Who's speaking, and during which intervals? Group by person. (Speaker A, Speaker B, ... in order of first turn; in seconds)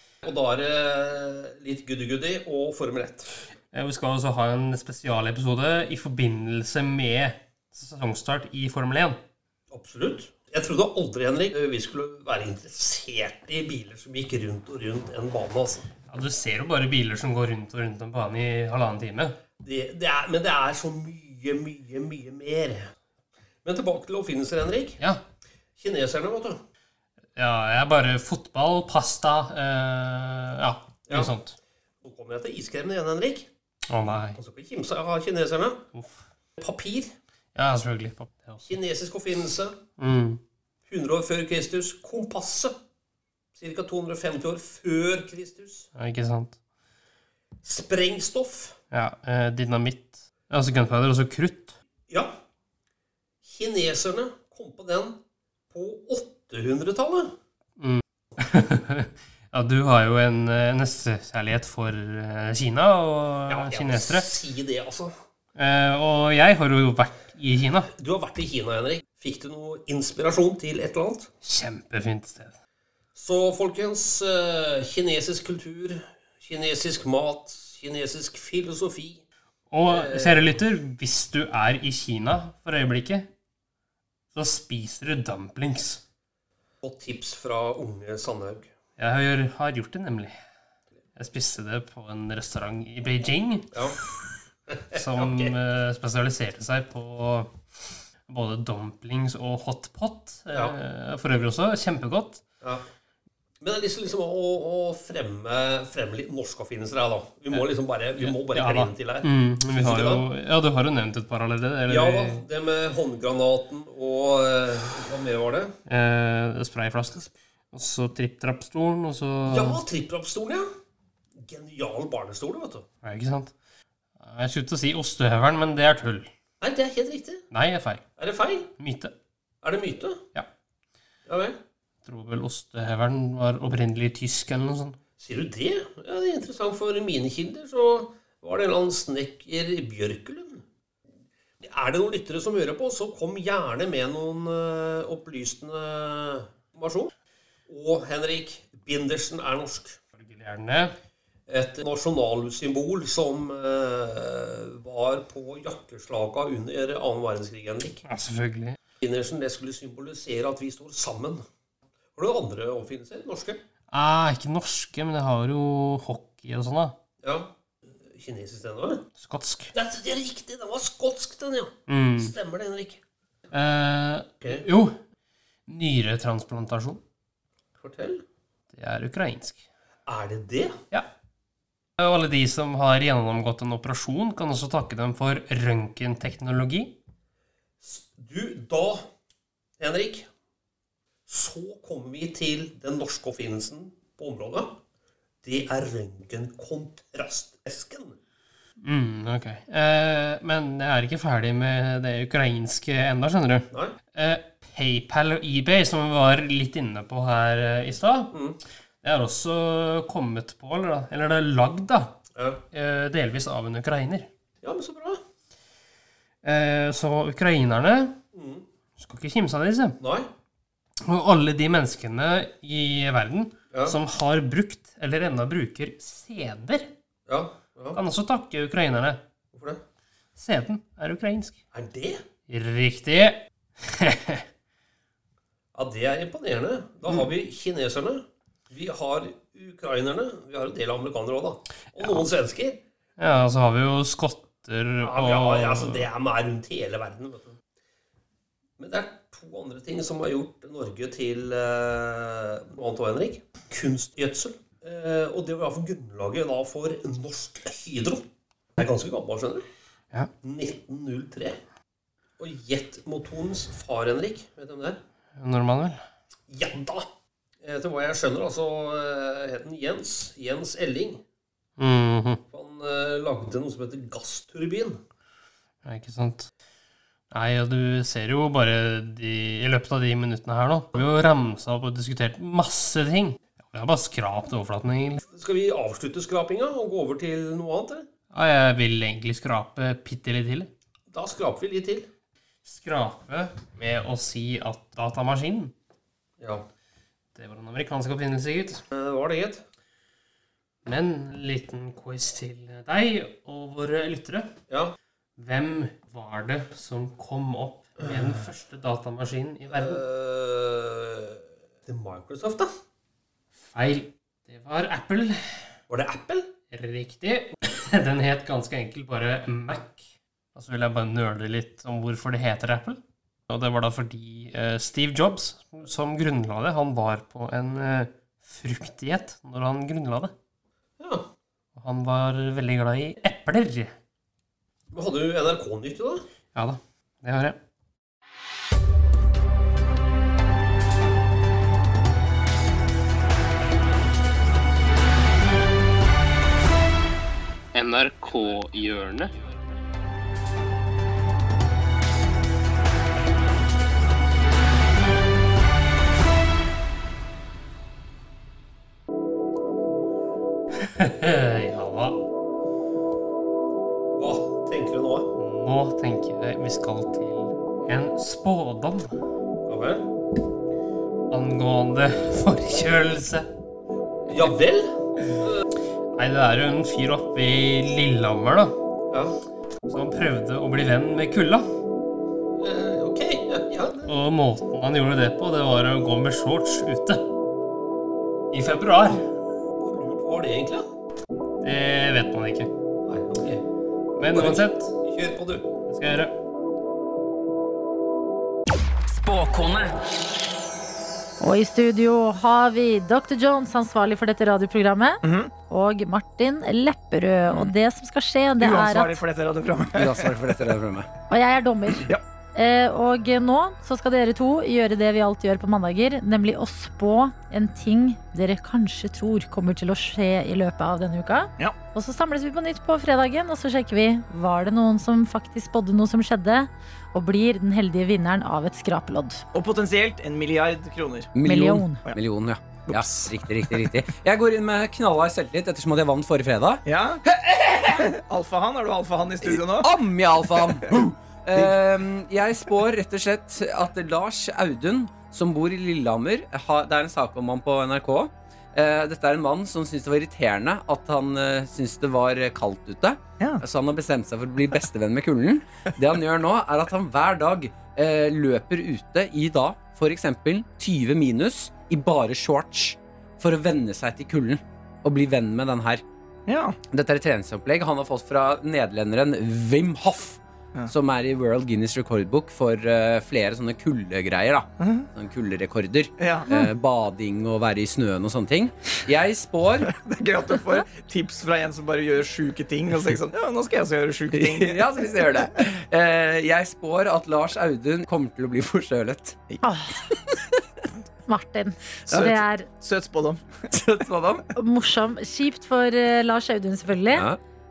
Speaker A: 0.2-3.3, 9.7-15.9, 19.6-22.8, 23.6-25.0, 25.8-26.6, 31.1-31.3, 32.0-33.5, 34.4-35.8, 36.6-37.1, 38.6-39.8, 40.9-42.7, 43.6-45.9, 47.6-48.8, 53.4-55.2, 55.7-57.3, 63.5-65.1, 68.0-71.3, 73.1-79.2, 79.8-80.6, 86.8-88.7, 94.7-95.5, 103.6-110.2, 111.9-115.7, 119.5-120.6, 121.4-122.8, 126.6-127.4, 128.2-128.7, 129.6-130.2, 131.3-131.6, 135.2-140.6, 141.6-147.1, 147.7-150.0, 151.5-158.0, 159.0-161.4, 162.2-163.6, 167.2-167.5, 168.1-169.0, 169.7-173.0, 177.8-178.2, 180.1-180.7, 187.8-189.0, 189.8-190.3, 191.3-194.8, 195.4-198.2, 208.3-208.6, 212.3-212.6, 214.6-215.2, 218.3-218.6, 220.0-220.3, 223.7-224.0, 227.3-228.0, 229.5-229.8, 231.7-232.2, 235.7-242.8, 245.0-247.6, 248.8-258.2, 258.8-259.6, 260.4-261.6, 262.4-265.0, 266.5-267.0, 267.6-271.2, 272.5-275.0, 285.3-288.1, 291.1-292.1, 296.4-296.6, 298.9-299.6, 304.7-304.9, 309.7-312.7, 315.9-316.5, 331.0-331.3, 334.9-336.2, 364.1-365.3, 369.7-370.1, 374.3-375.6, 379.1-379.4, 382.6-384.1, 389.8-390.9, 393.0-393.6, 394.3-395.7
Speaker B: 3.7-9.2, 16.1-19.4, 27.4-31.6, 33.9-34.4, 37.5-38.7, 40.0-40.4, 45.9-46.6, 48.9-51.8, 57.8-64.3, 65.5-67.9, 71.4-72.5, 79.7-83.3, 84.3-86.0, 89.0-90.3, 91.2-93.9, 94.9-97.5, 98.3-102.4, 108.2-112.4, 115.9-119.8, 123.0-123.5, 124.2-126.3, 127.5-128.0, 128.8-129.1, 132.0-135.0, 150.2-150.9, 158.1-158.8, 163.9-166.9, 169.2-169.7, 171.9-172.3, 173.5-174.9, 175.7-177.0, 178.7-179.6, 182.0-186.9, 198.8-208.3, 209.0-212.1, 212.7-214.3, 216.4-218.1, 219.0-220.0, 221.0-226.9, 227.9-229.2, 230.3-231.6, 232.5-233.4, 233.9-234.4, 243.2-246.1, 265.4-266.0, 271.8-272.4, 275.8-276.5, 277.3-285.2, 288.3-290.7, 292.6-295.7, 297.3-298.8, 300.9-304.5, 305.4-310.0, 313.7-315.4, 316.7-320.0, 320.5-330.3, 331.8-333.9, 336.5-337.6, 347.7-349.3, 361.0-362.2, 365.4-369.1, 371.3-373.5, 376.1-378.8, 379.9-381.6, 384.1-387.2, 388.5-389.2, 391.6-392.7, 394.2-394.9, 395.9-396.3
Speaker C: 399.1-399.9, 409.9-411.1, 431.3-436.8, 437.4-438.1, 439.4-466.0, 466.9-479.9, 484.3-489.4, 492.1-492.4, 493.7-494.5, 497.1-497.4
Speaker D: 401.4-409.2, 411.3-429.4, 431.4-432.0, 489.6-490.0, 491.3-492.7, 494.6-497.3
Speaker E: 405.2-405.5, 408.6-410.8, 412.0-412.2, 429.5-431.3, 432.9-433.8, 436.8-437.2, 437.9-439.9, 466.5-466.8, 474.8-475.1, 476.2-476.7, 479.8-484.8, 492.1-493.5